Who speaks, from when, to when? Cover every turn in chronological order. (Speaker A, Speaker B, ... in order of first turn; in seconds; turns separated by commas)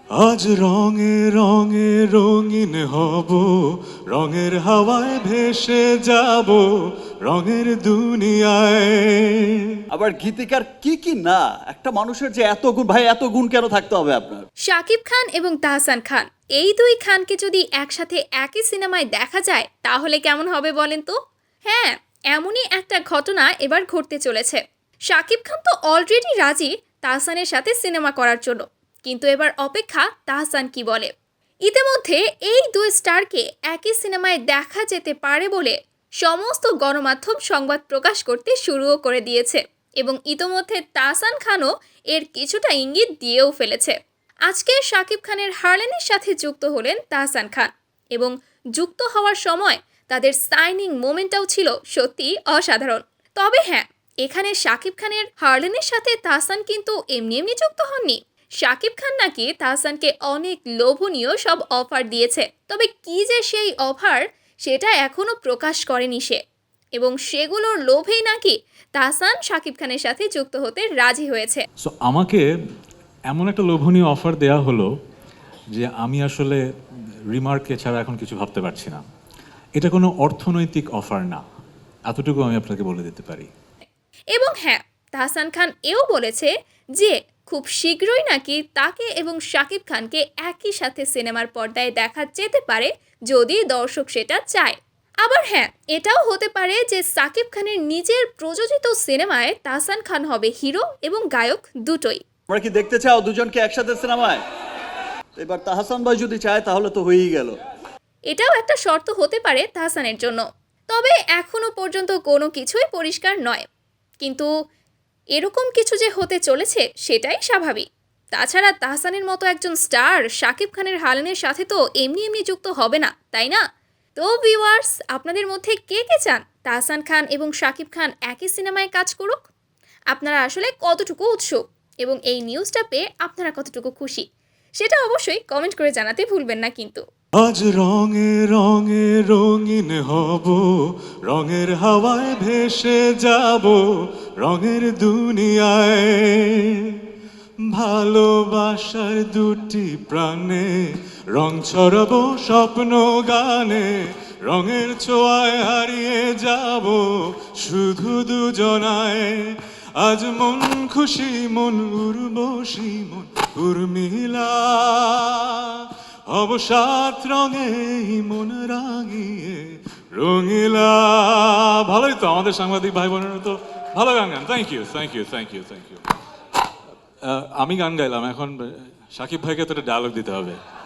Speaker A: 0.2-3.5, Speaker A: 4.1-6.6, Speaker A: 7.2-9.6, Speaker B: 9.9-14.4, Speaker C: 14.7-21.1, Speaker C: 21.7-31.1, Speaker C: 31.6-43.9, Speaker C: 44.5-66.4, Speaker C: 67.0-71.6, Speaker A: 71.8-72.4, Speaker A: 73.3-74.9, Speaker A: 75.8-76.6, Speaker A: 77.3-79.0, Speaker A: 79.8-81.4, Speaker A: 82.1-83.5, Speaker C: 84.3-102.2, Speaker B: 102.5-104.4, Speaker B: 105.3-107.5, Speaker C: 108.3-113.6, Speaker C: 114.2-114.5, Speaker C: 115.3-123.6, Speaker C: 124.2-129.4, Speaker C: 130.1-134.2, Speaker C: 134.8-137.0, Speaker A: 137.4-140.7, Speaker A: 141.3-143.8, Speaker A: 144.4-147.0, Speaker A: 147.7-176.0, Speaker A: 177.2-180.6